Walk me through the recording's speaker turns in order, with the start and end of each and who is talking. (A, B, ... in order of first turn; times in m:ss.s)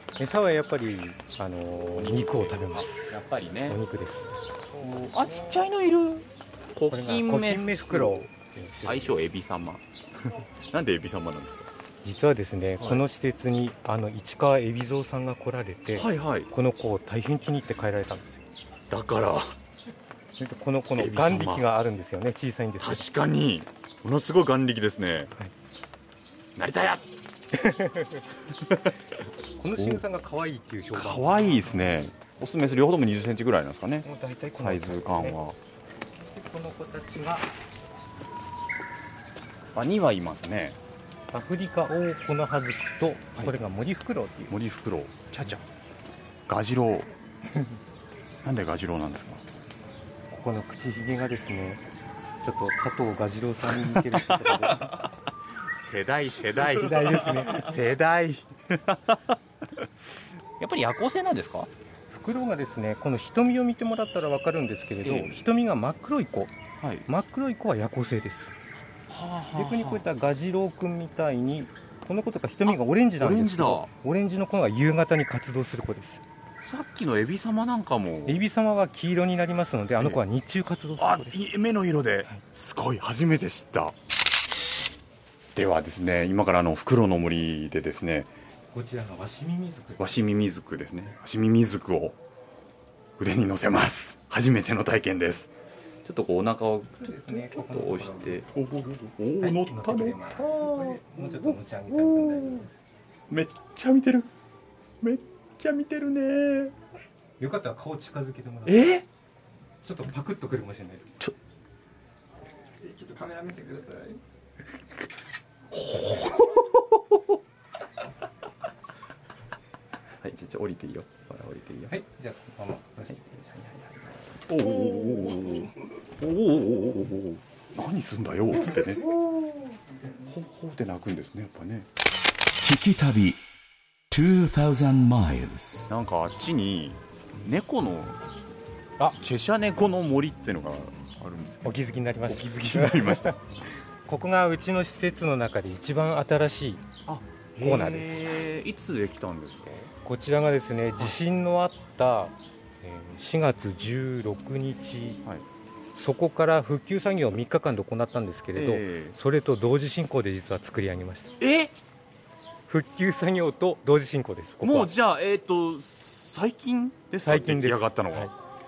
0:00.2-0:04.3 A
0:02.0-0:03.8 B
0:04.8-0:08.3 B
0:05.0-0:05.5 A
0:06.9-0:09.2 A
0:08.8-0:11.7 B
0:12.0-0:18.4 A
0:12.8-0:13.0 B
0:16.0-0:16.5 B
0:18.9-0:19.6 B
0:20.4-0:23.0 A
0:21.0-0:21.7 B
0:22.8-0:25.3 B
0:26.6-0:27.1 B
0:27.5-0:28.2 A
0:28.5-0:29.0 B
0:29.6-0:32.0 A
0:29.8-0:30.0 B
0:30.9-0:35.6 B
0:34.0-0:35.4 A
0:36.2-0:37.5 A
0:39.7-0:40.8 B
0:41.3-0:44.5 A
0:44.5-0:45.6 B
0:46.5-0:47.1 B
0:48.4-0:49.4 B
0:50.3-0:51.8 A
0:52.4-0:55.0 A
0:54.0-0:54.9 B
0:55.7-0:59.4 B
0:56.6-0:57.8 A
1:00.6-1:01.7 B
1:02.1-1:06.6 A
1:05.0-1:05.4 B
1:06.8-1:07.1 B
1:07.1-1:08.6 A
1:09.1-1:10.1 B
1:09.5-1:16.2 A
1:12.7-1:13.9 B
1:16.6-1:18.4 B
1:18.3-1:21.4 A
1:21.0-1:24.0 B
1:25.6-1:28.3 B
1:28.7-1:30.1 A
1:30.0-1:32.2 B
1:33.2-1:35.5 B
1:36.0-1:41.0 B
1:37.0-1:38.4 A
1:39.4-1:42.7 A
1:43.3-1:44.3 B
1:45.0-1:46.7 B
1:47.4-1:48.9 A
1:48.7-1:49.1 B
1:49.8-1:51.3 A
1:52.8-1:54.2 A
1:55.7-1:57.2 B
2:00.2-2:02.0 B
2:01.9-2:05.6 A
2:04.5-2:09.2 B
2:10.3-2:11.9 B
2:12.6-2:13.4 C
2:14.1-2:16.0 C
2:15.9-2:18.2 B
2:19.2-2:23.4 B
2:21.6-2:23.4 A
2:24.1-2:26.8 A
2:27.1-2:29.9 B
2:27.6-2:28.2 A
2:30.0-2:35.2 A
2:36.0-2:41.4 A
2:38.6-2:39.2 B
2:41.4-2:41.8 B
2:42.7-2:44.9 A
2:44.6-2:48.3 B
2:47.3-2:48.3 A